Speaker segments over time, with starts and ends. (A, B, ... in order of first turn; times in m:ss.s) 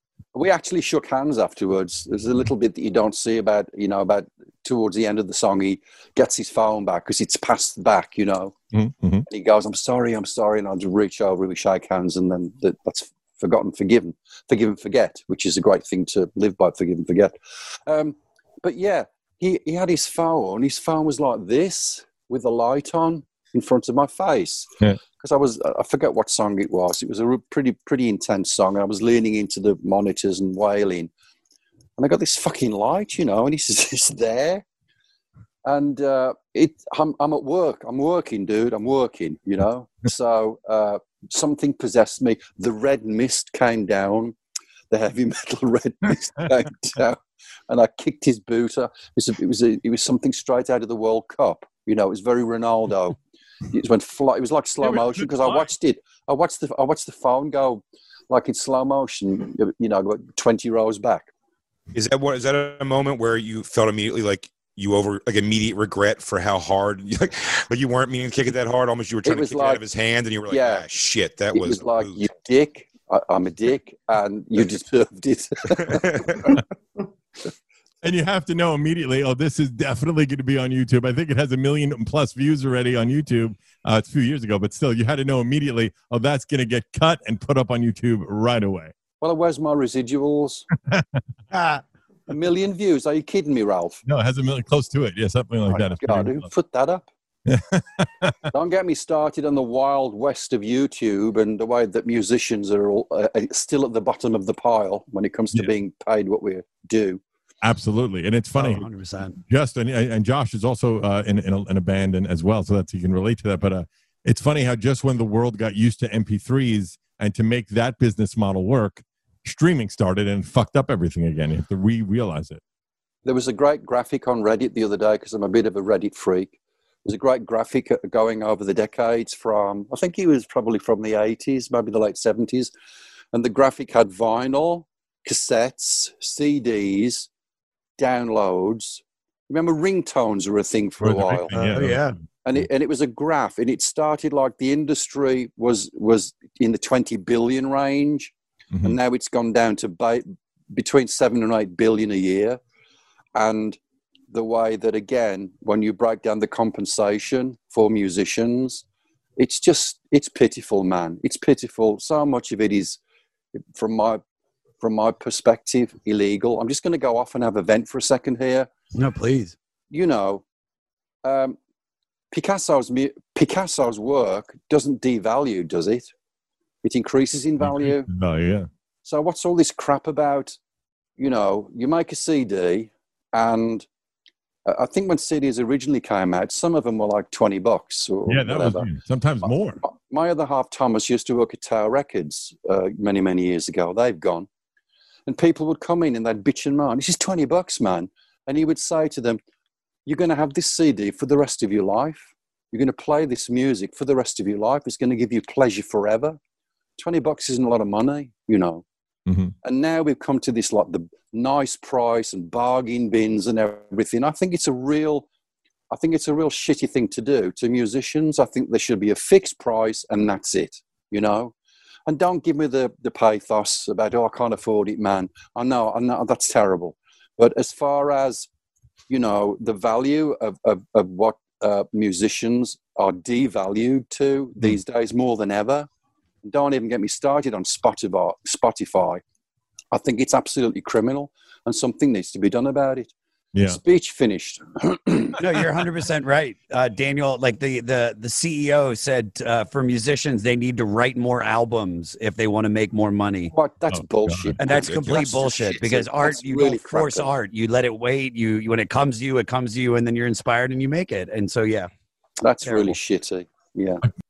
0:00.3-0:08.6 A
0:08.7-0:09.2 B
0:09.3-0:31.1 A
0:32.0-0:34.6 A
0:35.6-0:44.4 A
0:44.9-0:53.2 A
0:53.7-1:01.3 A
0:54.8-0:55.7 B
1:01.9-1:12.2 C
1:09.2-1:09.8 A
1:10.5-1:10.8 A
1:11.6-1:16.5 A
1:15.8-1:16.6 C
1:18.0-1:28.9 B
1:29.2-1:30.7 A
1:30.8-1:31.2 B
1:31.5-1:31.8 D
1:32.3-1:34.0 A
1:34.1-1:36.5 B
1:35.7-1:37.1 A
1:37.5-1:38.5 B
1:38.5-1:47.2 A
1:47.6-1:48.8 B
1:48.6-1:49.4 D
1:49.4-2:02.6 B
2:03.2-2:12.7 A
2:13.3-2:17.3 A
2:18.0-2:21.5 A
2:21.0-2:22.1 B
2:21.5-2:22.2 D
2:22.4-2:32.6 A
2:33.4-2:33.8 A
2:34.3-2:38.8 A
2:39.4-2:43.0 A
2:43.8-2:44.2 A
2:44.8-2:48.7 A
2:49.0-2:49.6 D
2:49.9-2:50.4 A
2:51.2-2:51.6 A
2:52.3-2:56.1 A
2:56.8-2:58.1 A
2:57.6-2:58.7 B
2:59.0-3:00.6 A
3:01.2-3:03.9 A
3:04.7-3:08.9 A
3:08.3-3:09.8 B
3:09.8-3:14.5 A
3:15.3-3:19.4 A
3:20.1-3:26.4 A
3:27.0-3:28.8 A
3:29.3-3:29.5 B
3:29.6-3:35.3 A
3:35.9-3:41.5 A
3:42.1-3:48.5 A
3:49.1-3:55.9 A
3:56.4-3:59.2 A
3:59.9-4:03.1 A
4:03.6-4:03.8 B
4:03.6-4:05.4 A
4:05.4-4:13.5 D
4:13.5-4:17.3 A
4:13.9-4:14.5 B
4:14.6-4:21.9 D
4:14.6-4:15.8 C
4:22.4-4:24.0 A
4:22.6-4:23.0 D